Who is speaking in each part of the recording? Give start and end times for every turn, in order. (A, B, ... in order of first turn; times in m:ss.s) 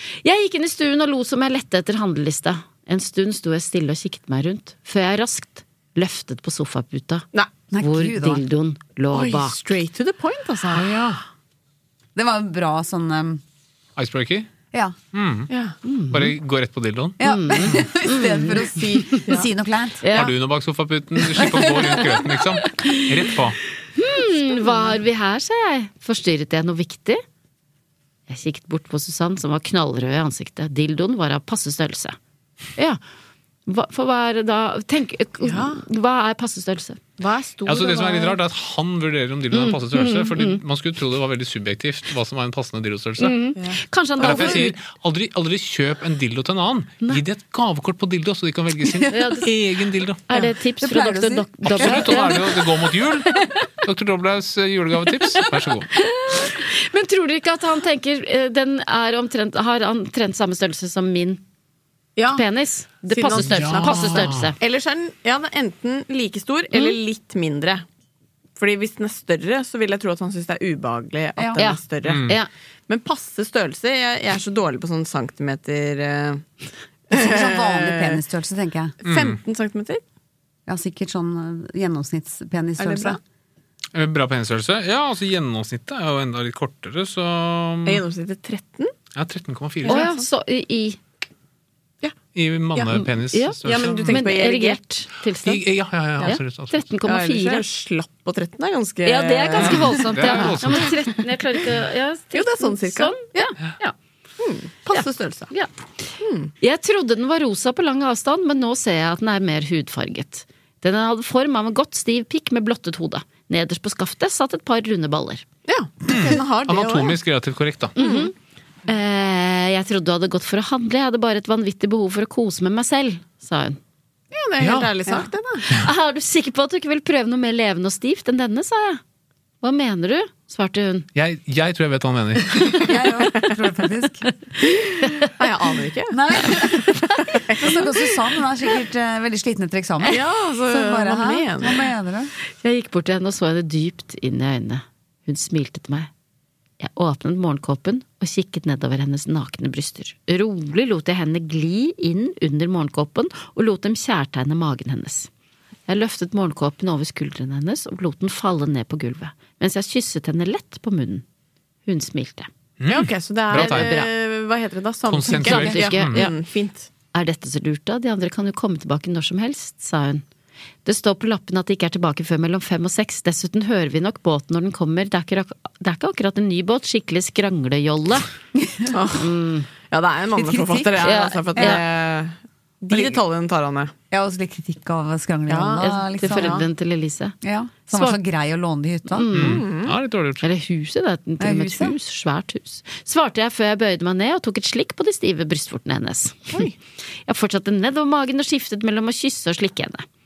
0:00.2-0:07.2 A
0:07.7-0:08.4 B
0:07.8-0:09.6 A
0:09.1-0:10.9 C
0:10.7-0:11.2 D
0:12.2-0:13.4 B
0:14.0-0:14.5 D
0:15.1-0:15.5 D
0:15.5-0:15.8 C
0:15.8-0:16.3 A
0:16.1-0:17.8 D
0:17.2-0:20.1 B
0:17.2-0:18.6 A
0:18.6-0:19.5 C
0:20.0-0:20.3 A
0:20.1-0:23.6 D
0:21.4-0:21.9 B
0:22.7-0:23.1 A
0:23.9-0:27.2 A
0:28.3-0:32.2 A
0:33.7-0:37.0 A
0:35.4-0:35.8 C
0:37.2-0:38.4 C
0:37.7-0:43.4 D
0:39.5-0:40.6 A
0:43.2-0:44.8 A
0:44.2-0:50.2 D
0:49.1-0:49.5 A
0:50.3-0:52.4 A
0:50.8-0:51.9 B
0:51.6-0:55.9 D
0:56.0-1:01.4 A
1:02.2-1:02.4 C
1:02.4-1:04.6 A
1:03.1-1:07.8 C
1:03.4-1:04.5 D
1:08.6-1:12.3 C
1:11.6-1:12.5 A
1:12.1-1:12.4 D
1:12.9-1:16.4 C
1:17.1-1:18.2 C
1:17.1-1:19.0 B
1:19.0-1:19.4 D
1:19.0-1:20.0 C
1:20.7-1:23.2 B
1:22.8-1:23.2 C
1:23.9-1:28.0 D
1:27.8-1:28.9 C
1:29.2-1:30.1 D
1:29.8-1:30.2 C
1:29.9-1:31.0 A
1:32.4-1:34.2 D
1:32.9-1:35.6 A
1:33.6-1:34.8 C
1:35.4-1:36.8 D
1:36.2-1:37.6 A
1:37.0-1:40.6 C
1:39.0-1:44.0 A
1:39.6-1:41.0 D
1:42.3-1:43.5 C
1:44.4-1:45.5 C
1:44.9-1:45.7 A
1:46.2-1:46.5 C
1:46.6-1:55.4 A
1:55.7-1:57.2 C
1:56.1-1:58.0 D
1:58.0-1:58.3 A
1:58.0-1:58.3 C
1:58.9-2:03.8 A
2:04.3-2:05.6 C
2:04.6-2:04.9 D
2:05.7-2:09.0 A
2:09.6-2:11.1 A
2:11.2-2:12.8 D
2:12.8-2:14.3 B
2:15.4-2:16.2 C
2:16.1-2:22.3 B
2:17.5-2:17.7 C
2:20.1-2:21.8 C
2:22.6-2:26.1 A
2:26.8-2:35.3 A
2:35.9-2:41.2 A
2:41.9-2:42.5 A
2:42.8-2:44.0 D
2:42.9-2:46.9 C
2:43.5-2:44.1 A
2:45.1-2:46.3 D
2:45.3-2:46.3 A
2:47.1-2:50.2 A
2:50.8-2:58.3 A
2:58.6-2:58.9 B
2:58.9-2:59.3 C
2:59.2-2:59.7 A
2:59.9-3:03.9 C
3:00.3-3:01.8 B
3:01.0-3:01.8 A
3:04.1-3:06.7 B
3:05.5-3:06.6 C
3:05.8-3:07.4 A
3:07.4-3:09.3 B
3:07.9-3:08.2 A
3:09.1-3:09.6 A
3:09.3-3:10.4 D
3:09.4-3:09.9 C
3:10.4-3:16.6 A
3:11.4-3:12.0 B
3:17.3-3:20.0 A